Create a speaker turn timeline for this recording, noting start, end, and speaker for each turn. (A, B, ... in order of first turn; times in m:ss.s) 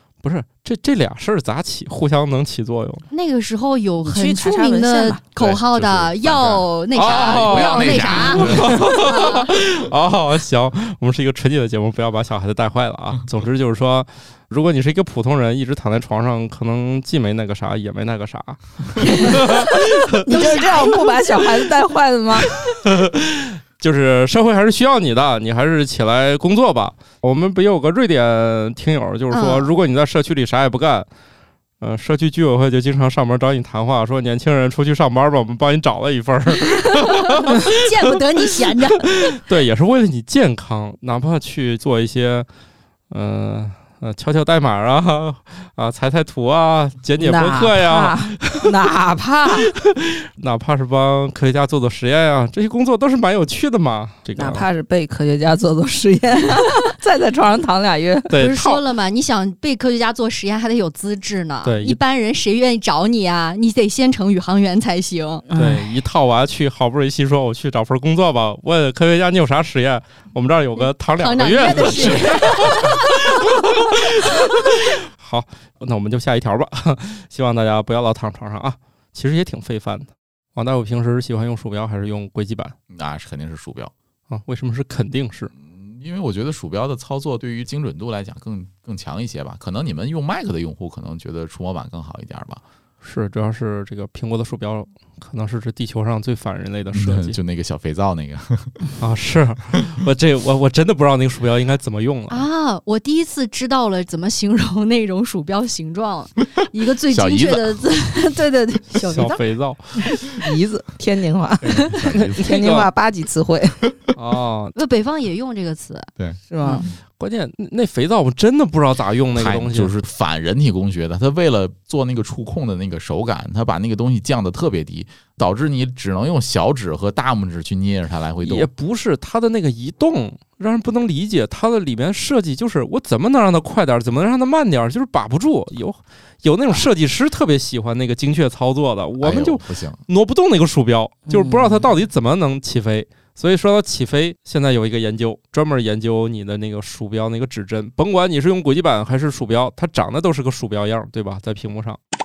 0:00.2-0:03.1 A
0:03.1-0:09.5 B
0:04.0-0:05.2 C
0:05.4-0:08.9 D
0:06.9-0:20.1 A
0:19.2-0:19.6 C
0:20.1-0:22.5 C
0:20.3-0:21.3 B
0:22.6-0:31.1 A
0:29.3-0:29.7 B
0:31.8-0:42.5 A
0:36.9-0:39.4 B
0:43.1-0:48.7 A
0:47.2-0:49.7 C
0:49.7-0:54.7 A
0:54.4-0:58.3 C
0:58.3-0:58.8 A
0:58.4-1:05.5 B
1:01.6-1:02.0 A
1:05.5-1:05.9 C
1:05.6-1:22.8 A
1:11.2-1:13.3 B
1:22.9-1:23.9 D
1:24.3-1:25.5 A
1:25.6-1:32.6 D
1:33.0-1:37.4 A
1:36.9-1:38.8 D
1:39.0-1:42.5 A
1:42.3-1:49.4 B
1:47.1-1:47.8 D
1:48.9-1:50.1 A
1:50.4-1:53.8 C
1:51.6-1:52.5 D
1:52.3-1:52.9 A
1:54.2-1:54.8 A
1:54.8-1:56.1 B
1:56.2-1:56.9 D
1:56.5-1:56.8 C
1:57.2-1:59.9 A
1:59.4-2:08.7 D
2:08.4-2:32.0 A
2:19.2-2:20.0 D
2:21.3-2:21.9 C